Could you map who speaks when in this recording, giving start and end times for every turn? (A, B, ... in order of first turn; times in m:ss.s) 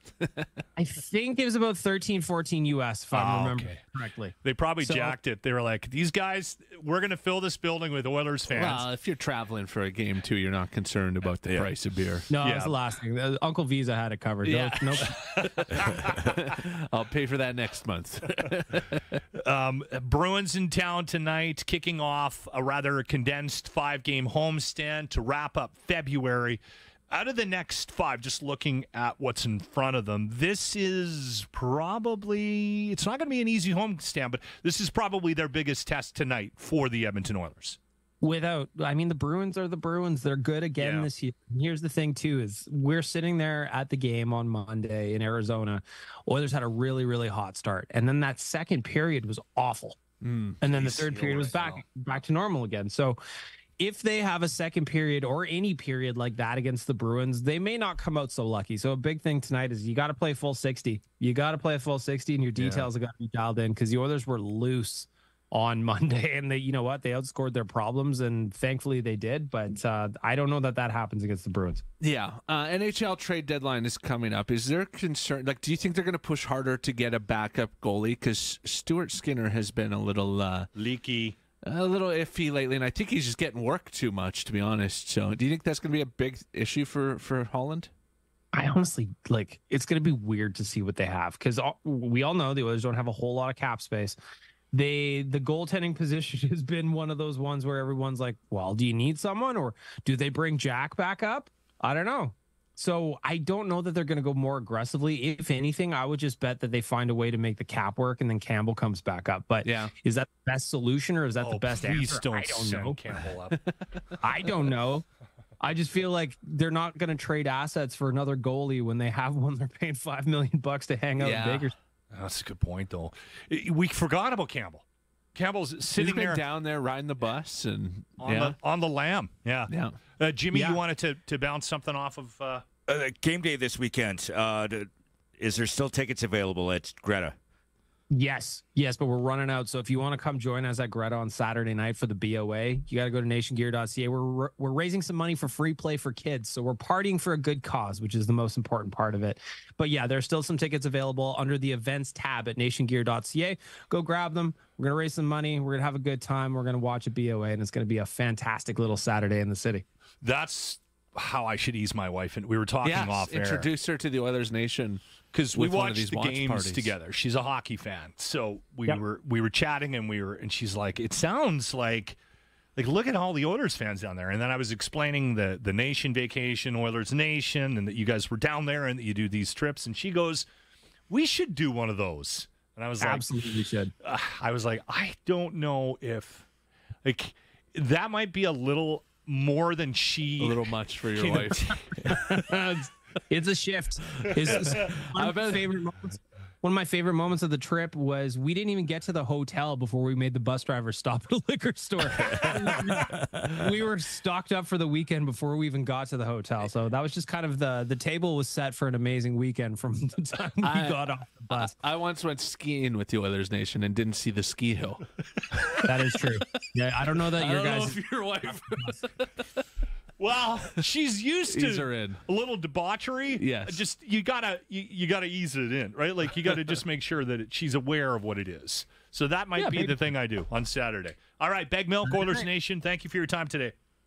0:00.2-0:00.5 A
0:00.8-0:05.2 B
0:03.1-0:03.8 C
0:04.4-0:08.9 C
0:08.5-0:12.3 A
0:12.3-0:15.2 B
0:12.4-0:12.8 C
0:14.4-0:19.1 A
0:19.3-0:37.8 C
0:38.2-0:50.0 B
0:40.8-0:41.1 C
0:50.2-0:50.6 A
0:50.6-0:53.2 B
0:50.6-0:51.8 C
0:53.8-1:11.8 B
1:02.6-1:02.9 C
1:12.0-1:20.7 A
1:20.7-1:21.4 C
1:21.6-1:27.9 A
1:28.5-1:34.2 B
1:34.7-1:53.0 B
1:49.6-1:49.9 A
1:51.4-1:53.6 C
1:54.2-1:55.0 B
1:55.6-2:01.7 B
2:01.2-2:01.7 A
2:02.1-2:04.8 C
2:05.3-2:06.4 C
2:05.9-2:08.6 A
2:08.2-2:12.6 C
2:09.7-2:10.0 A
2:10.5-2:10.8 B
2:12.9-2:17.4 D
2:18.1-2:39.8 B
2:40.2-2:43.7 C
2:42.8-2:45.0 A
2:45.3-2:52.2 C
2:45.5-2:46.9 A
2:52.8-3:00.5 C
3:01.1-3:03.4 C
3:03.0-3:03.9 B
3:04.0-3:06.5 C
3:07.0-3:10.6 C
3:10.4-3:12.1 A
3:11.2-3:11.9 C
3:11.7-3:31.7 B
3:14.5-3:15.7 A
3:22.3-3:23.4 A
3:30.6-3:35.9 A
3:35.8-3:38.0 B
3:37.4-3:39.6 A
3:40.2-3:53.7 C
3:41.5-3:42.2 A
3:43.4-3:43.8 A
3:49.6-3:50.0 A
3:52.1-3:52.4 B